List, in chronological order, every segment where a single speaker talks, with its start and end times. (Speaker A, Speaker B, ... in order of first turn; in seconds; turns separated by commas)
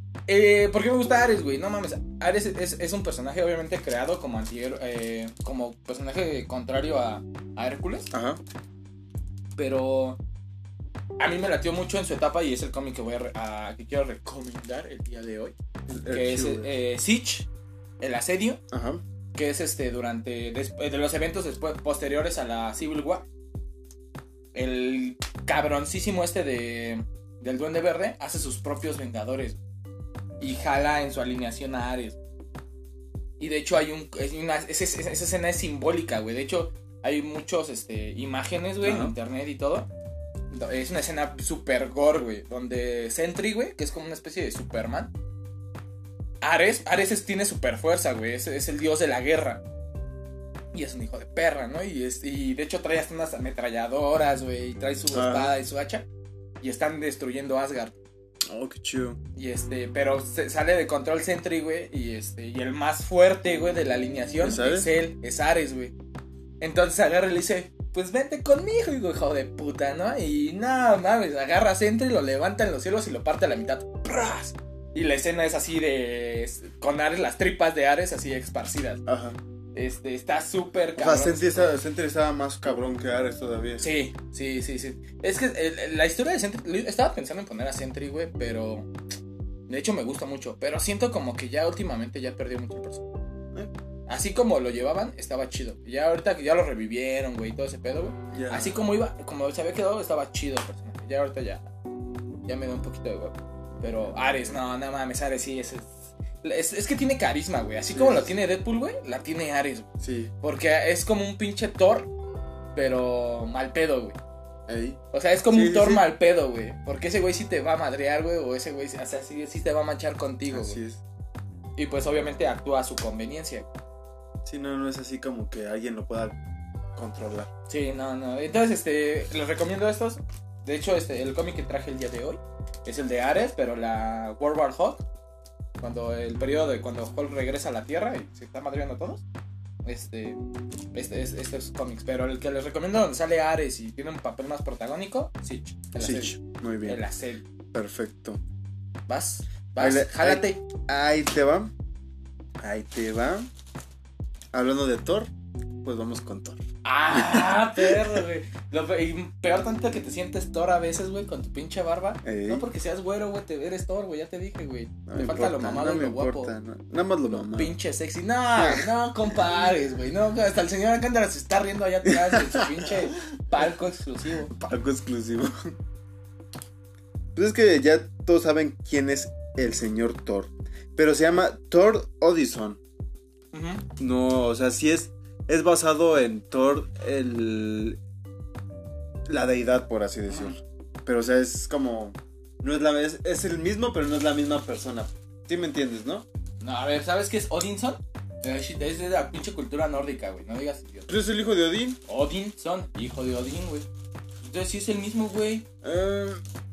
Speaker A: 0.3-8.1, Speaker B: 8.1-8.4, Speaker A: 9.6-10.2, Speaker A: 11.2-15.5, Speaker B: 15.9-16.7, Speaker A: 16.1-17.5, Speaker A: 18.0-18.6, Speaker B: 18.7-19.0, Speaker A: 19.4-23.2, Speaker A: 24.5-29.6, Speaker A: 30.4-32.2, Speaker A: 33.4-39.9, Speaker B: 38.8-39.1, Speaker A: 40.5-45.1, Speaker A: 46.4-49.6, Speaker A: 50.7-56.1, Speaker B: 55.1-55.6, Speaker A: 56.6-58.0, Speaker B: 58.5-59.2, Speaker A: 59.4-65.9, Speaker B: 64.4-64.9, Speaker A: 66.6-79.0, Speaker B: 79.1-79.4, Speaker A: 79.7-81.8, Speaker B: 81.0-83.9, Speaker A: 83.8-88.9, Speaker A: 89.7-93.0, Speaker A: 94.1-101.7, Speaker B: 98.3-98.8, Speaker A: 102.5-109.9, Speaker B: 103.8-104.6, Speaker B: 107.9-108.3, Speaker B: 110.0-110.3, Speaker A: 110.4-112.1, Speaker A: 112.7-114.2, Speaker B: 114.7-116.1, Speaker A: 115.1-120.8, Speaker B: 120.5-121.0, Speaker A: 121.8-123.7, Speaker B: 124.4-126.4, Speaker B: 127.0-127.5, Speaker A: 127.7-135.0, Speaker A: 135.8-139.2, Speaker A: 139.8-140.4, Speaker A: 140.9-147.4, Speaker B: 146.0-147.0, Speaker B: 147.7-148.4, Speaker A: 149.1-150.6, Speaker B: 149.8-151.7, Speaker B: 152.6-153.5, Speaker B: 154.5-155.3, Speaker B: 155.8-158.2, Speaker A: 156.8-166.5, Speaker B: 162.2-162.7, Speaker B: 165.1-167.7, Speaker A: 167.3-174.5, Speaker B: 168.6-168.9, Speaker B: 172.1-173.6, Speaker B: 174.5-175.7, Speaker B: 177.3-182.8, Speaker A: 183.5-183.8, Speaker B: 184.0-188.0, Speaker B: 189.3-196.2, Speaker A: 190.3-190.6, Speaker A: 196.6-201.1, Speaker B: 201.1-202.0, Speaker A: 202.1-203.9, Speaker A: 204.4-205.7, Speaker B: 205.8-206.4